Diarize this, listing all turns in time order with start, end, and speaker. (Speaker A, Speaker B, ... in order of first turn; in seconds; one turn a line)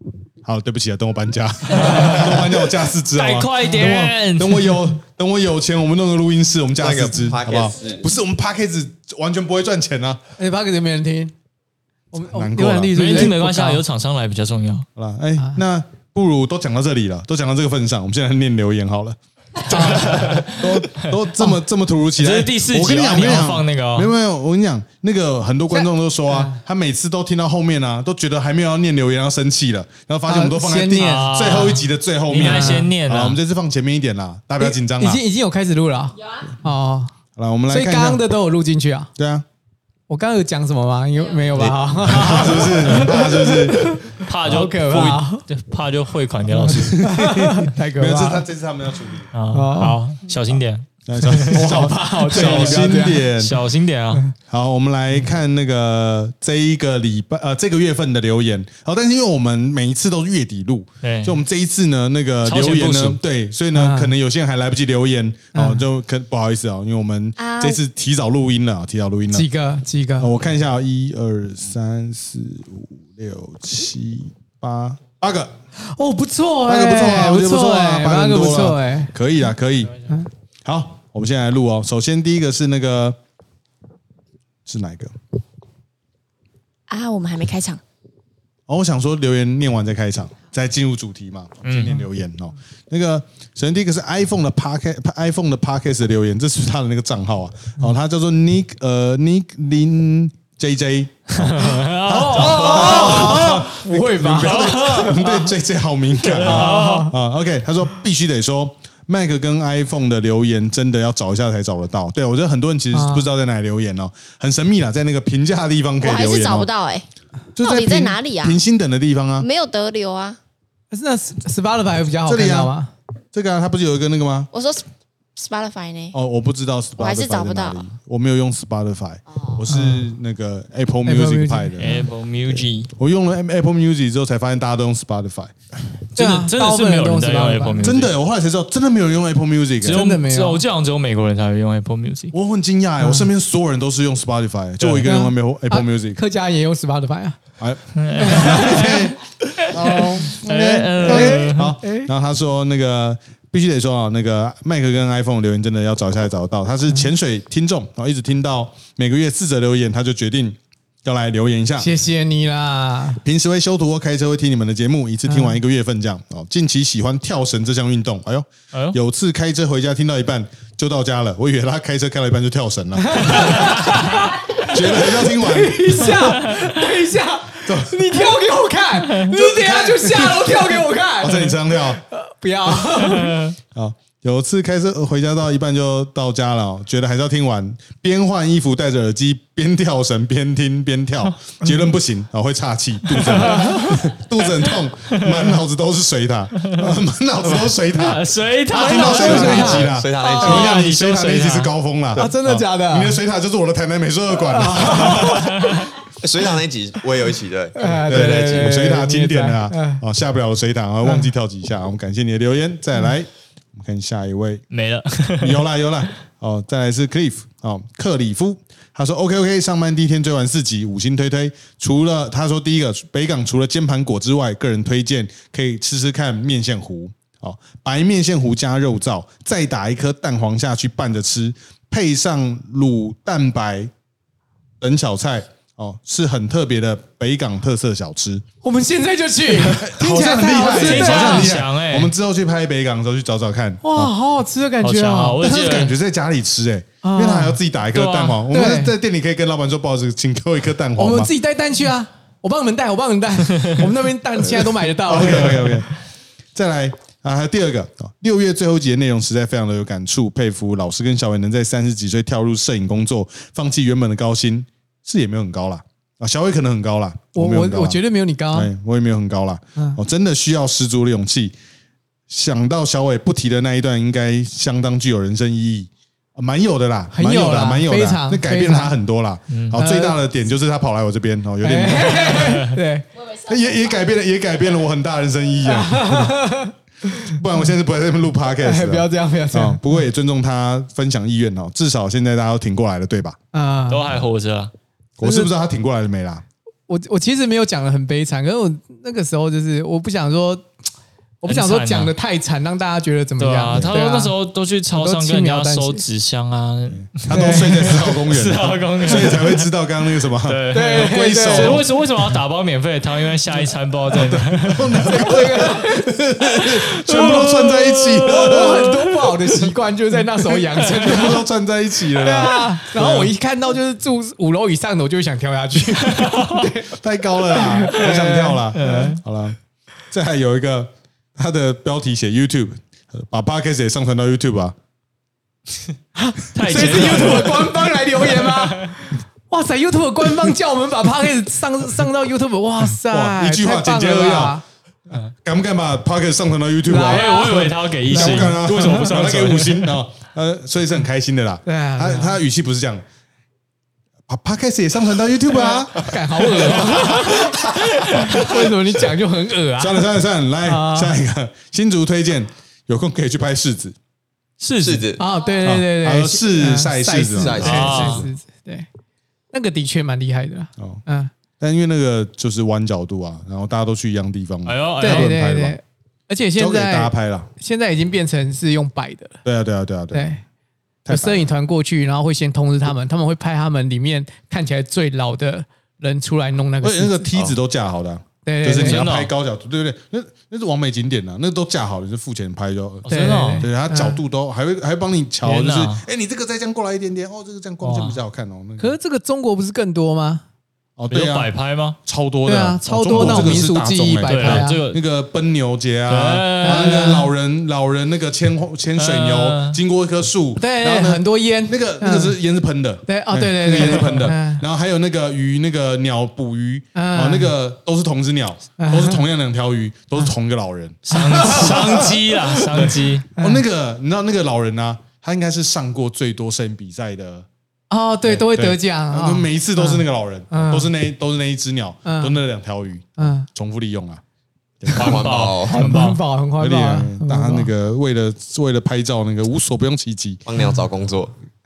Speaker A: 0.4-10.2
Speaker B: 1.7-4.8
Speaker C: 6.8-8.1
Speaker D: 10.4-11.3
Speaker D: 12.1-13.8
Speaker A: 12.3-13.3
Speaker B: 12.9-14.9
Speaker A: 14.9-35.2
Speaker D: 19.7-20.3
Speaker B: 20.0-21.1
Speaker B: 22.2-24.1
Speaker D: 25.8-26.5
Speaker D: 30.3-31.7
Speaker B: 30.9-33.4
Speaker D: 32.3-32.9
Speaker D: 34.6-37.1
Speaker A: 37.4-38.2
Speaker D: 37.7-39.1
Speaker A: 39.2-39.4
Speaker D: 40.1-45.4
Speaker A: 41.5-44.0
Speaker B: 42.9-43.1
Speaker B: 44.2-47.1
Speaker A: 46.5-49.3
Speaker D: 46.7-48.4
Speaker B: 49.3-54.2
Speaker D: 49.5-50.0
Speaker A: 50.5-53.5
Speaker D: 51.5-53.3
Speaker A: 54.5-69.5
Speaker B: 61.0-61.4
Speaker B: 62.4-63.2
Speaker D: 63.7-64.1
Speaker D: 65.5-65.8
Speaker E: 67.4-67.8
Speaker D: 69.3-70.3
Speaker A: 70.2-75.5
Speaker D: 75.9-79.1
Speaker A: 76.6-80.0
Speaker A: 80.6-83.2
Speaker A: 84.7-85.1
Speaker E: 86.9-87.8
Speaker A: 88.7-116.7
Speaker B: 91.6-92.0
Speaker B: 101.3-103.7
Speaker D: 102.1-105.5
Speaker B: 104.3-105.2
Speaker B: 106.3-107.1
Speaker D: 106.3-107.1
Speaker D: 112.9-113.3
Speaker E: 116.0-117.0
Speaker A: 117.5-119.5
Speaker E: 117.6-118.6
Speaker E: 119.4-120.4
Speaker D: 120.9-122.9
Speaker A: 122.2-122.7
Speaker A: 123.3-124.5
Speaker E: 124.5-124.8
Speaker E: 125.3-126.1
Speaker A: 126.1-135.5
Speaker E: 127.0-127.8
Speaker E: 129.3-129.6
Speaker D: 129.7-130.1
Speaker D: 131.1-132.1
Speaker B: 131.8-132.9
Speaker B: 136.1-138.1
Speaker D: 136.2-137.9
Speaker A: 137.8-140.1
Speaker B: 139.8-142.3
Speaker D: 139.8-140.6
Speaker A: 142.3-146.2
Speaker D: 143.0-143.3
Speaker B: 144.8-145.1
Speaker D: 145.0-147.4
Speaker A: 147.6-161.9
Speaker B: 147.9-151.7
Speaker D: 148.2-148.9
Speaker D: 151.0-152.1
Speaker D: 161.8-163.2
Speaker A: 163.2-173.9
Speaker D: 165.3-165.6
Speaker D: 173.0-183.5
Speaker B: 173.4-173.9
Speaker A: 174.6-176.4
Speaker B: 176.2-176.7
Speaker A: 177.6-178.2
Speaker A: 179.3-182.0
Speaker B: 183.0-183.5
Speaker A: 183.7-205.7
Speaker B: 193.2-194.0
Speaker D: 193.5-194.0
Speaker B: 195.1-195.5
Speaker B: 197.9-201.7
Speaker D: 198.7-199.9
Speaker C: 199.5-200.8
Speaker D: 202.2-203.2
Speaker D: 204.4-205.7
Speaker B: 205.3-205.9
Speaker C: 206.2-208.8
Speaker D: 207.8-210.0
Speaker A: 208.1-214.6
Speaker D: 211.0-211.3
Speaker B: 214.7-215.6
Speaker A: 215.4-233.9
Speaker A: 234.8-238.4
Speaker D: 238.6-241.5
Speaker A: 239.5-244.1
Speaker B: 240.6-242.1
Speaker D: 243.8-245.6
Speaker B: 244.8-245.9
Speaker A: 245.4-251.3
Speaker D: 247.0-247.6
Speaker B: 247.9-248.4
Speaker D: 248.5-248.9
Speaker D: 251.0-255.8
Speaker A: 255.0-255.9
Speaker A: 256.5-268.0
Speaker D: 267.3-268.7
Speaker A: 268.5-271.5
Speaker A: 272.3-282.6
Speaker D: 277.1-278.9
Speaker B: 279.5-279.8
Speaker D: 279.8-280.2
Speaker D: 281.6-283.1
Speaker A: 283.3-286.5
Speaker D: 285.6-287.3
Speaker A: 287.1-293.4
Speaker D: 288.6-289.8
Speaker D: 293.5-294.1
Speaker B: 293.9-294.7
Speaker A: 295.2-296.4
Speaker D: 295.2-295.5
Speaker D: 296.9-300.7
Speaker D: 301.4-304.3
Speaker B: 301.4-302.1
Speaker B: 303.4-309.7
Speaker D: 304.9-306.1
Speaker A: 306.9-311.9
Speaker D: 307.3-308.1
Speaker B: 310.4-315.8
Speaker D: 310.7-311.8
Speaker A: 314.1-318.9
Speaker D: 315.0-316.1
Speaker B: 316.6-319.5
Speaker D: 318.2-321.4
Speaker B: 320.7-321.3
Speaker A: 320.9-323.3
Speaker D: 322.1-326.9
Speaker A: 326.9-329.6
Speaker D: 327.5-329.1
Speaker B: 328.7-329.2
Speaker A: 330.1-334.8
Speaker D: 336.1-344.6
Speaker B: 336.5-338.9
Speaker A: 337.0-337.3
Speaker A: 342.9-353.0
Speaker D: 346.8-348.6
Speaker B: 346.9-349.9
Speaker D: 351.6-352.4
Speaker A: 354.3-358.6
Speaker D: 355.9-360.1
Speaker B: 356.7-358.6
Speaker A: 359.8-363.9
Speaker D: 360.6-361.1
Speaker B: 364.6-365.1
Speaker C: 364.8-365.3
Speaker D: 365.2-368.9
Speaker A: 365.6-368.3
Speaker C: 367.4-368.1
Speaker B: 367.6-368.3
Speaker D: 369.5-371.3
Speaker A: 371.6-375.8
Speaker B: 374.6-375.4
Speaker D: 375.0-379.4
Speaker A: 376.6-377.5
Speaker A: 379.4-380.4
Speaker D: 380.1-380.4
Speaker A: 381.1-381.5
Speaker D: 381.1-387.3
Speaker A: 386.8-398.9
Speaker D: 388.4-389.1
Speaker B: 388.8-389.3
Speaker D: 393.1-394.2
Speaker B: 393.1-393.7
Speaker B: 395.4-396.0
Speaker D: 397.8-398.2
Speaker D: 398.8-400.4
Speaker A: 401.0-401.5
Speaker B: 401.1-402.0
Speaker A: 402.0-427.4
Speaker D: 402.4-404.8
Speaker B: 403.1-403.7
Speaker B: 404.2-405.0
Speaker B: 406.1-407.2
Speaker D: 406.6-407.3
Speaker B: 408.9-409.8
Speaker D: 410.6-412.3
Speaker D: 413.1-414.6
Speaker D: 416.9-417.5
Speaker D: 418.8-419.2
Speaker B: 421.1-423.3
Speaker D: 421.1-422.1
Speaker D: 423.4-423.6
Speaker D: 427.9-430.9
Speaker A: 428.2-434.2
Speaker D: 432.0-432.4
Speaker D: 433.2-433.5
Speaker A: 434.8-435.2
Speaker C: 434.9-435.9
Speaker B: 434.9-436.2
Speaker D: 435.8-437.7
Speaker A: 436.6-440.4
Speaker C: 440.4-441.3